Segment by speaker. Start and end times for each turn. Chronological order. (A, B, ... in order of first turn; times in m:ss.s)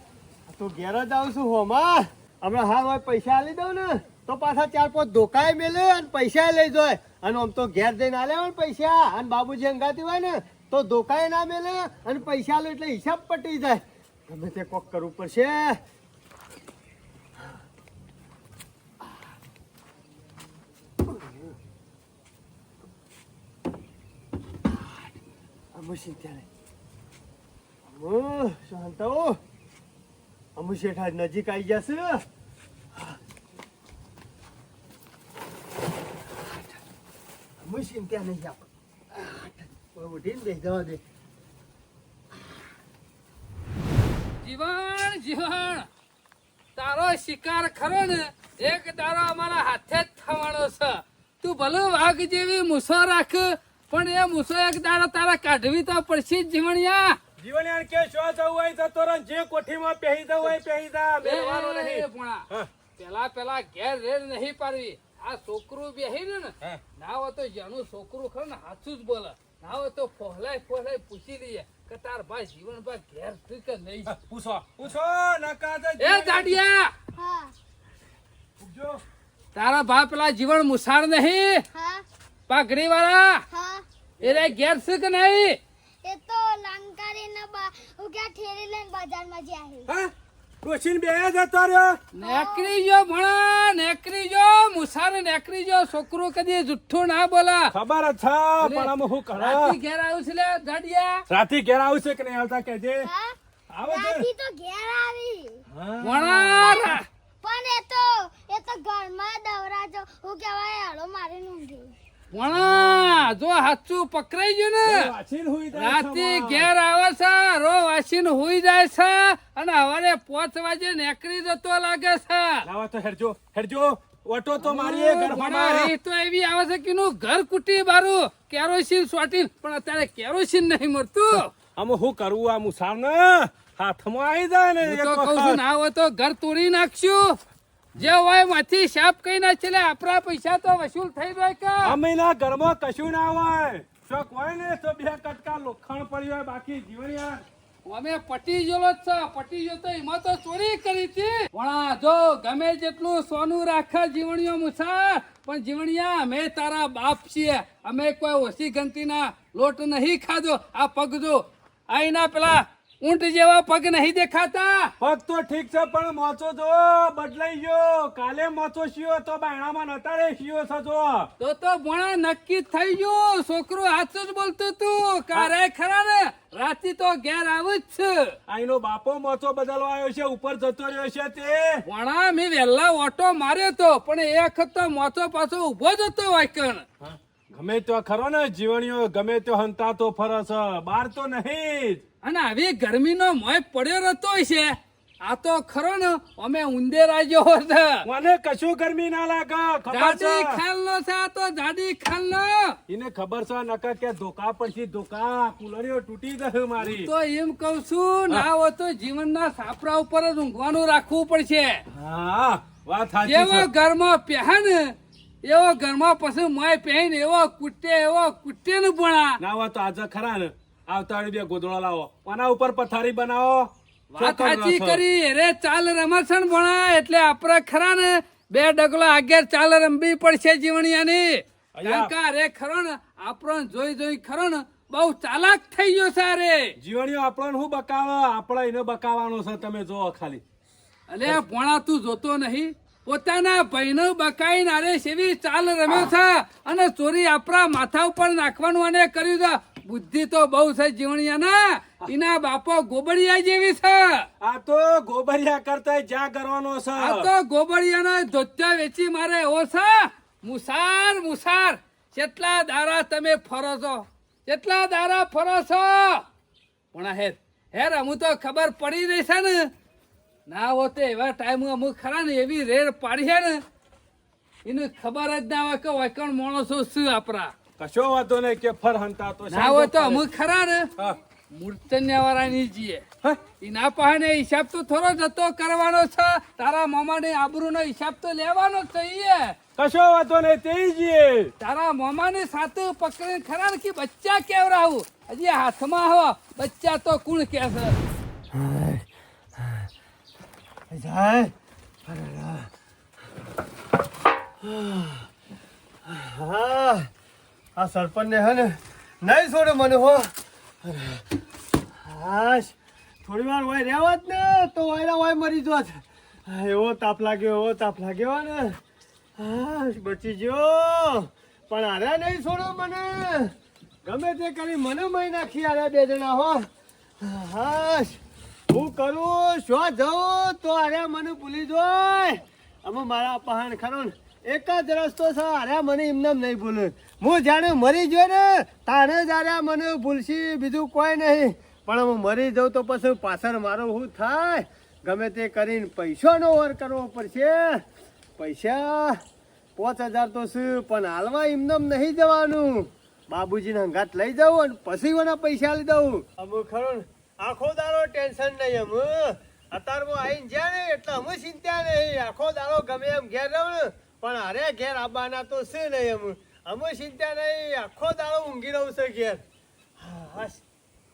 0:00.5-0:15.8 A
0:21.0-0:21.5 A
0:25.7-0:26.4 A
0:27.9-0:29.4 A
0:30.6-0:32.2 A
0:36.3-0:36.8 A
0:37.6-0:41.0 A
0:44.4-0:45.9 B
0:46.8-0:57.2 B
0:57.4-1:02.7 C
1:01.2-1:02.5 B
1:03.0-1:14.1 B
1:14.1-1:16.6 C
1:16.0-1:16.9 B
1:17.2-1:17.5 D
1:18.6-1:19.0 C
1:19.5-1:21.6 B
1:21.7-1:22.0 D
1:22.5-1:23.4 B
1:23.5-1:23.8 D
1:24.2-1:25.6 B
1:24.2-1:24.5 C
1:26.0-1:29.9 D
1:30.6-1:32.0 C
1:32.1-1:37.7 B
1:32.2-1:32.7 D
1:37.7-1:39.8 C
1:38.6-1:41.2 B
1:41.3-1:43.1 C
1:43.0-1:45.6 D
1:43.7-1:44.2 C
1:45.7-1:47.0 C
1:46.0-1:47.0 B
1:46.6-1:51.9 D
1:52.3-1:55.1 B
1:52.5-1:53.3 C
1:54.8-1:56.7 C
1:55.7-2:02.6 B
2:02.6-2:05.9 C
2:04.6-2:11.5 B
2:11.8-2:15.6 C
2:14.8-2:17.4 B
2:18.0-2:22.0 B
2:21.8-2:27.4 C
2:27.8-2:44.9 B
2:45.0-2:51.3 C
2:51.4-2:58.4 B
2:58.5-3:01.8 C
3:01.8-3:06.8 B
3:07.0-3:12.0 C
3:12.2-3:18.0 B
3:18.0-3:20.6 C
3:19.9-3:22.8 B
3:22.9-3:27.1 C
3:26.8-3:31.8 B
3:31.9-3:33.7 C
3:33.2-3:34.9 B
3:35.4-3:39.4 B
3:39.4-3:45.0 C
3:44.1-3:56.7 B
3:51.7-3:52.1 C
3:56.8-4:00.4 C
4:01.1-4:14.2 B
4:14.4-4:17.3 C
4:17.0-4:26.2 B
4:26.9-4:29.7 B
4:30.5-4:33.6 B
4:34.6-4:37.5 B
4:37.8-4:40.2 C
4:39.5-4:40.9 B
4:41.5-4:43.0 B
4:43.6-4:49.6 B
4:49.8-4:51.5 C
4:51.6-4:58.0 B
4:58.5-4:59.0 A
4:59.6-4:59.8 A
5:00.9-5:01.5 A
5:02.0-5:02.7 A
5:04.6-5:05.3 A
5:06.1-5:07.1 A
5:07.8-5:10.3 A
5:10.8-5:11.2 A
5:12.0-5:18.8 A
5:19.4-5:23.5 A
5:24.0-5:26.7 A
5:27.2-5:47.8 A
5:48.4-5:49.2 A
5:49.8-6:09.4 A
6:10.0-6:10.6 A